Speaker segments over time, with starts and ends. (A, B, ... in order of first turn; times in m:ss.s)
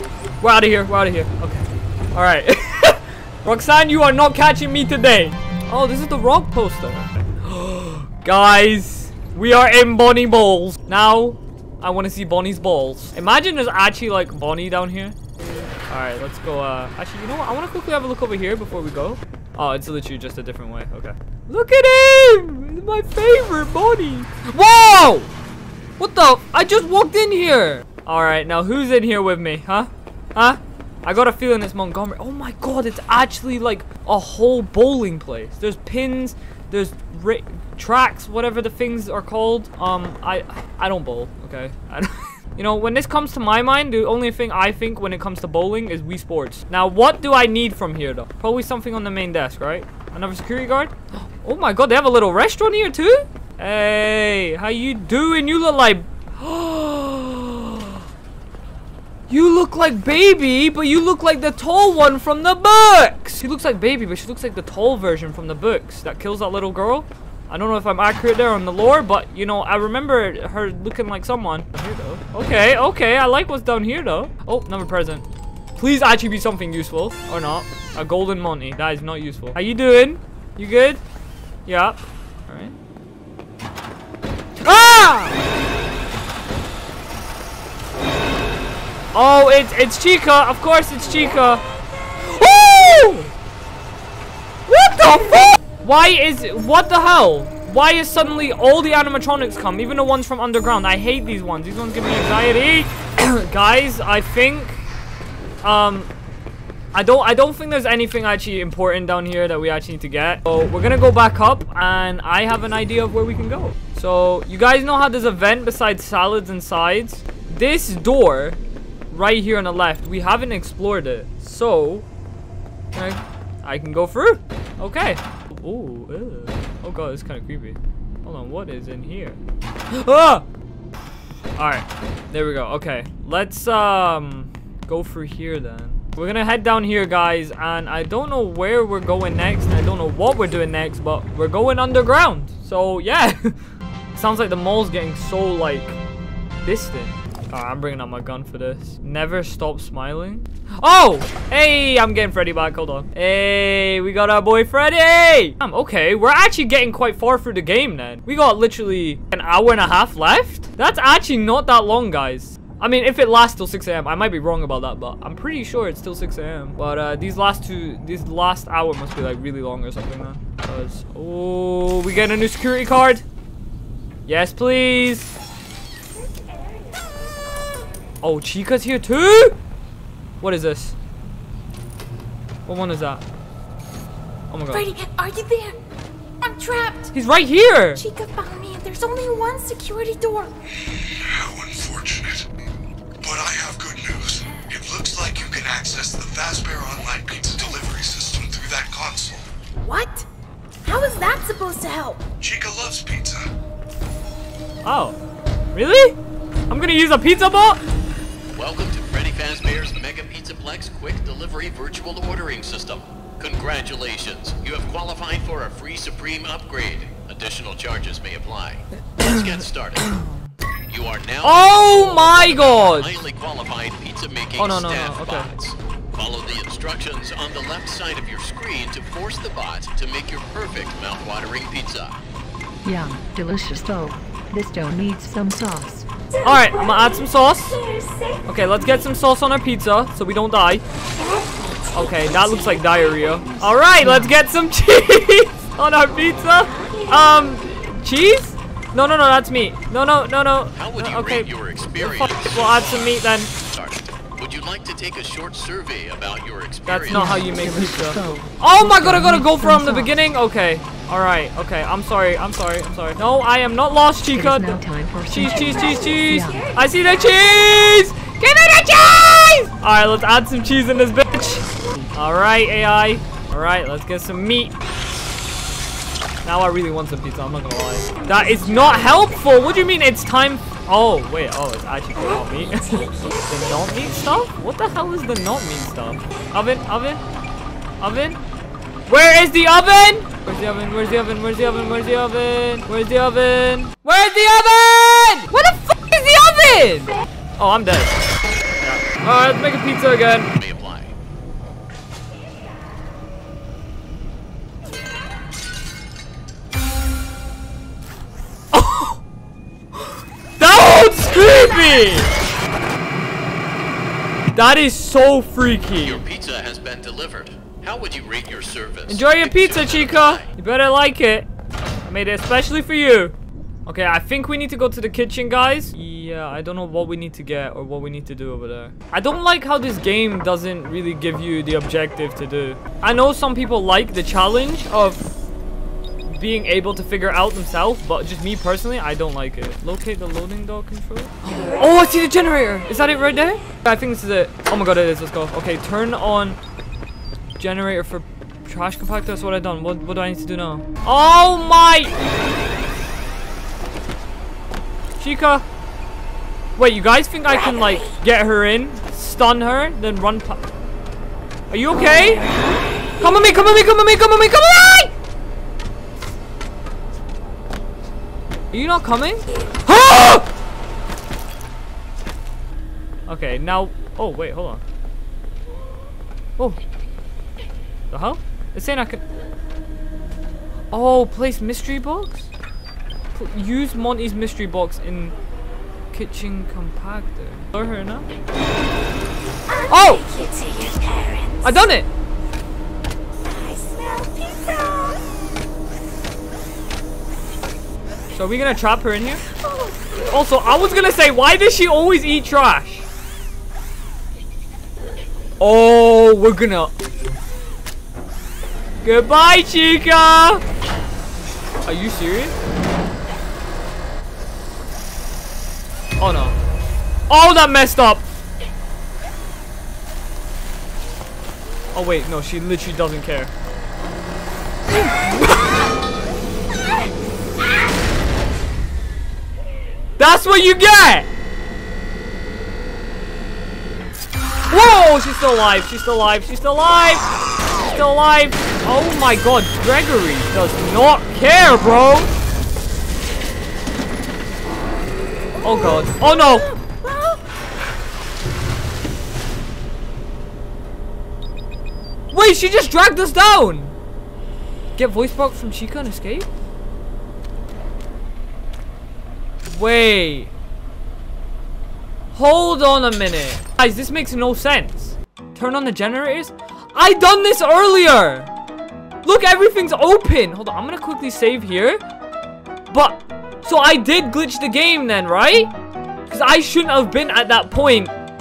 0:00.4-0:15.2 A
0:15.9-0:25.3 A
0:26.0-0:58.0 A
0:59.3-1:15.2 A
1:15.8-1:21.0 A
1:21.6-1:22.7 A
1:24.6-1:25.4 A
1:29.1-1:31.6 A
1:32.2-1:33.3 A
1:34.7-1:44.8 A
1:45.6-1:46.1 A
1:46.9-1:58.6 A
1:59.1-2:02.1 A
2:02.9-2:10.4 A
2:11.6-2:23.5 A
2:24.1-2:26.0 A
2:26.6-2:53.2 A
2:54.2-2:55.4 A
2:58.2-2:59.6 A
3:00.4-3:01.0 A
3:02.6-3:03.2 A
3:04.5-3:04.9 A
3:04.7-3:05.8 B
3:06.4-3:07.1 B
3:07.1-3:08.0 A
3:08.0-3:10.5 B
3:10.8-3:12.5 C
3:13.2-3:19.5 C
3:19.8-3:20.3 B
3:20.8-3:22.2 B
3:22.4-3:23.5 C
3:24.8-3:25.2 A
3:25.7-3:26.2 A
3:26.7-3:27.8 A
3:28.5-3:40.2 D
3:40.0-3:40.5 A
3:40.9-3:52.2 D
3:41.4-3:43.1 A
3:44.6-3:45.5 A
3:52.8-3:56.1 E
3:56.4-3:57.8 A
3:57.9-3:58.3 B
3:58.4-4:00.8 A
4:01.2-4:02.2 B
4:01.9-4:13.5 A
4:04.0-4:04.3 E
4:10.8-4:17.4 D
4:16.8-4:34.7 A
4:17.1-4:20.2 E
4:24.3-4:26.7 E
4:36.4-4:47.2 A
4:48.0-4:48.4 A
4:49.1-4:58.1 A
4:58.8-5:00.5 A
5:00.5-5:01.1 D
5:08.7-5:09.2 A
5:10.0-5:12.4 A
5:14.5-5:16.2 A
5:16.0-5:20.5 D
5:19.1-5:21.5 A
5:22.0-5:35.2 A
5:36.2-5:46.6 A
5:47.6-5:52.1 A
5:55.2-5:55.6 A
5:56.8-6:00.6 A
6:01.7-6:02.5 A
6:03.2-6:05.1 A
6:08.7-6:10.5 A
6:13.3-6:14.8 A
6:18.1-6:19.2 A
6:20.9-6:22.5 A
6:23.3-6:25.4 A
6:26.1-6:28.3 A
6:29.7-6:31.8 B
6:29.9-6:30.2 A
6:31.6-6:32.1 A
6:33.5-6:35.2 B
6:38.3-6:39.4 A
6:39.7-6:39.9 B
6:40.3-6:43.1 A
6:45.6-6:46.9 A
6:49.0-6:50.6 A
6:51.8-6:52.6 A
6:56.2-6:56.6 A
6:57.3-6:58.2 A
7:01.9-7:03.5 A
7:10.2-7:11.3 A
7:14.7-7:22.3 A
7:25.6-7:26.7 A
7:32.3-7:33.9 A
7:35.0-7:36.5 A
7:39.7-7:40.5 A
7:42.3-7:48.5 A
7:49.2-7:52.0 A
7:52.9-7:55.7 A
7:56.3-7:58.1 A